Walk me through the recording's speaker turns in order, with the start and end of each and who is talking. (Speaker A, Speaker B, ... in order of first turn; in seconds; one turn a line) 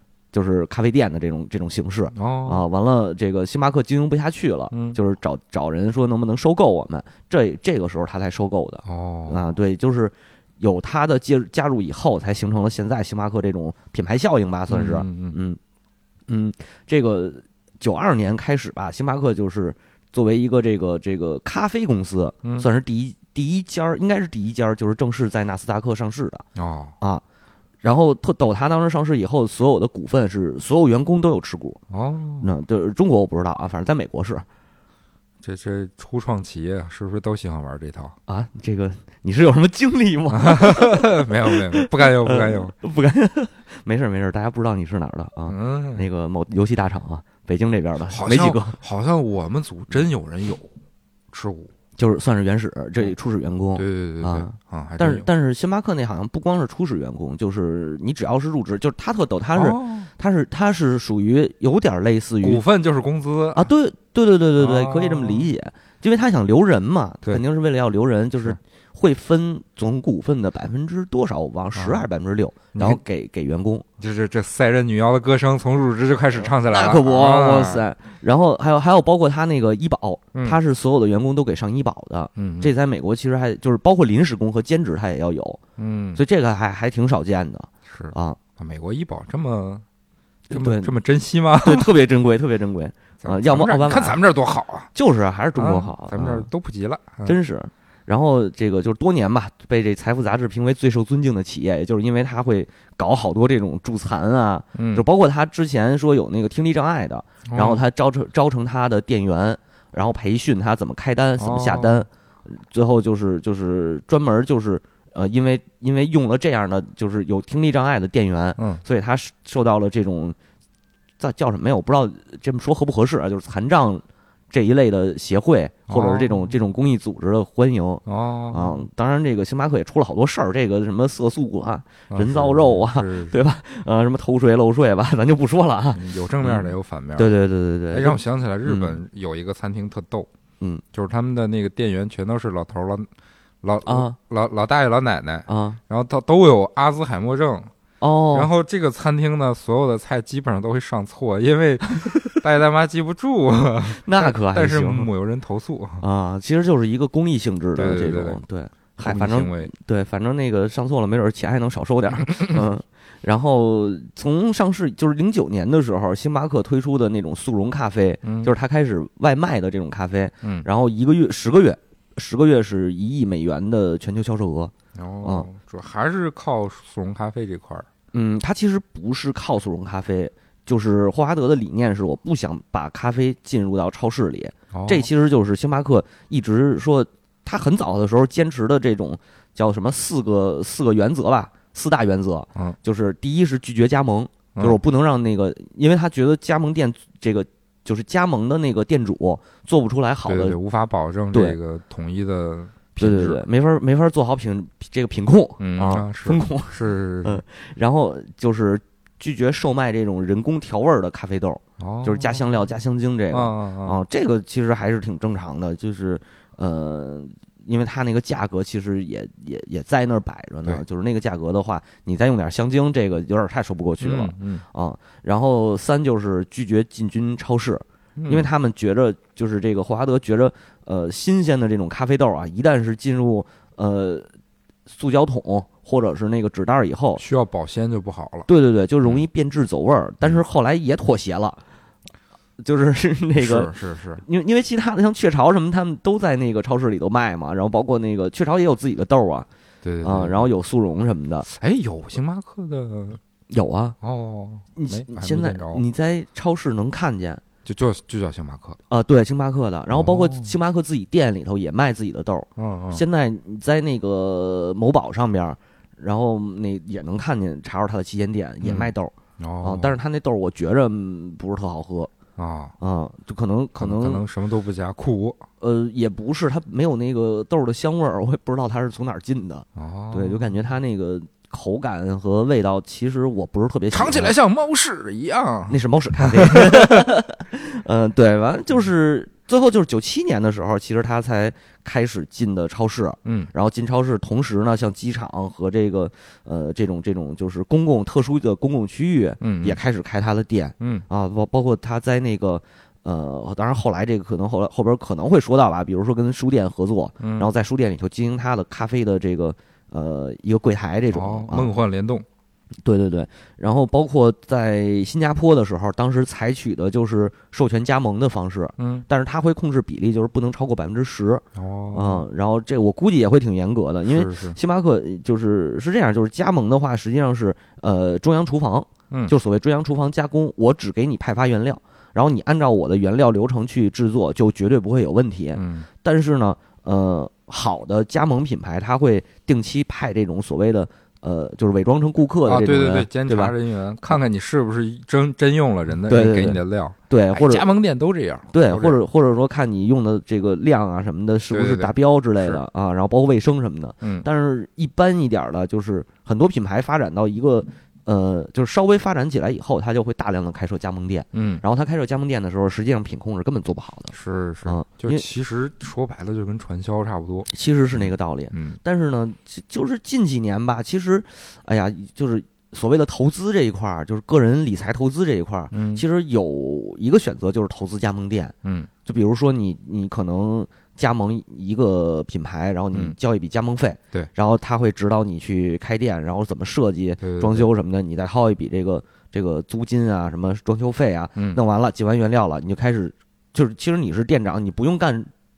Speaker A: 0.3-15.6
Speaker B: 2.1-2.7
Speaker B: 4.7-5.0
Speaker B: 8.8-9.4
Speaker B: 14.7-15.4
Speaker A: 16.3-26.4
Speaker B: 26.6-26.9
Speaker A: 27.8-31.8
Speaker B: 31.9-32.5
Speaker A: 32.4-34.5
Speaker B: 35.4-38.2
Speaker A: 38.3-48.8
Speaker B: 40.3-42.7
Speaker B: 45.5-46.1
Speaker B: 48.1-50.7
Speaker B: 51.3-51.7
Speaker A: 52.0-62.6
Speaker B: 53.8-55.3
Speaker B: 59.5-60.1
Speaker B: 62.4-63.7
Speaker A: 63.5-73.9
Speaker B: 64.6-65.5
Speaker B: 71.8-72.1
Speaker B: 72.8-73.0
Speaker B: 74.0-77.8
Speaker A: 76.4-85.6
Speaker B: 82.4-82.7
Speaker B: 85.8-86.2
Speaker A: 86.2-88.4
Speaker B: 87.9-89.8
Speaker A: 90.5-90.9
Speaker B: 90.5-91.9
Speaker A: 91.6-94.2
Speaker B: 93.2-94.9
Speaker A: 94.9-96.5
Speaker B: 95.6-97.4
Speaker A: 97.2-120.4
Speaker B: 104.8-105.0
Speaker B: 107.5-107.8
Speaker B: 111.4-112.0
Speaker B: 118.6-118.8
Speaker A: 121.2-139.0
Speaker B: 125.9-126.5
Speaker B: 128.1-128.8
Speaker B: 132.1-133.4
Speaker B: 135.9-137.3
Speaker B: 137.9-140.3
Speaker B: 140.9-143.1
Speaker B: 143.6-147.7
Speaker A: 143.9-144.2
Speaker A: 145.5-145.8
Speaker A: 148.0-148.5
Speaker B: 148.3-156.0
Speaker A: 153.9-155.1
Speaker A: 156.0-175.5
Speaker B: 157.8-158.4
Speaker B: 159.0-159.7
Speaker B: 168.2-168.5
Speaker B: 174.9-177.9
Speaker A: 178.1-200.6
Speaker B: 184.7-185.1
Speaker B: 200.2-203.4
Speaker A: 201.3-201.6
Speaker A: 203.0-234.3
Speaker B: 205.6-207.4
Speaker B: 211.8-212.6
Speaker B: 213.3-214.0
Speaker B: 224.0-224.7
Speaker B: 228.2-228.5
Speaker A: 234.9-237.2
Speaker B: 237.2-238.5
Speaker A: 238.5-241.6
Speaker A: 242.6-249.5
Speaker B: 243.4-244.2
Speaker B: 249.8-250.5
Speaker A: 250.0-251.5
Speaker B: 251.5-253.2
Speaker A: 253.5-254.0
Speaker B: 254.0-255.8
Speaker A: 254.8-257.4
Speaker B: 257.6-258.8
Speaker A: 258.9-272.1
Speaker B: 259.9-260.5
Speaker B: 262.6-263.0
Speaker B: 268.6-270.0
Speaker B: 272.4-272.8
Speaker A: 272.8-274.2
Speaker B: 273.8-275.4
Speaker A: 275.6-284.3
Speaker B: 279.8-280.5
Speaker B: 283.9-287.1
Speaker A: 285.7-311.7
Speaker B: 293.2-293.5
Speaker B: 299.4-299.8
Speaker B: 300.8-301.1
Speaker B: 307.2-307.5
Speaker B: 311.1-312.3
Speaker A: 312.9-343.6
Speaker B: 318.8-319.1
Speaker B: 321.6-322.2
Speaker B: 324.1-324.6
Speaker B: 335.5-335.9
Speaker B: 342.5-349.0
Speaker A: 346.1-347.7
Speaker A: 348.5-365.3
Speaker B: 351.5-352.6
Speaker B: 354.0-354.3
Speaker B: 361.3-361.6
Speaker B: 364.1-368.8
Speaker A: 367.5-378.5
Speaker B: 375.7-376.0
Speaker B: 378.6-378.9
Speaker A: 379.1-395.3
Speaker B: 387.2-387.7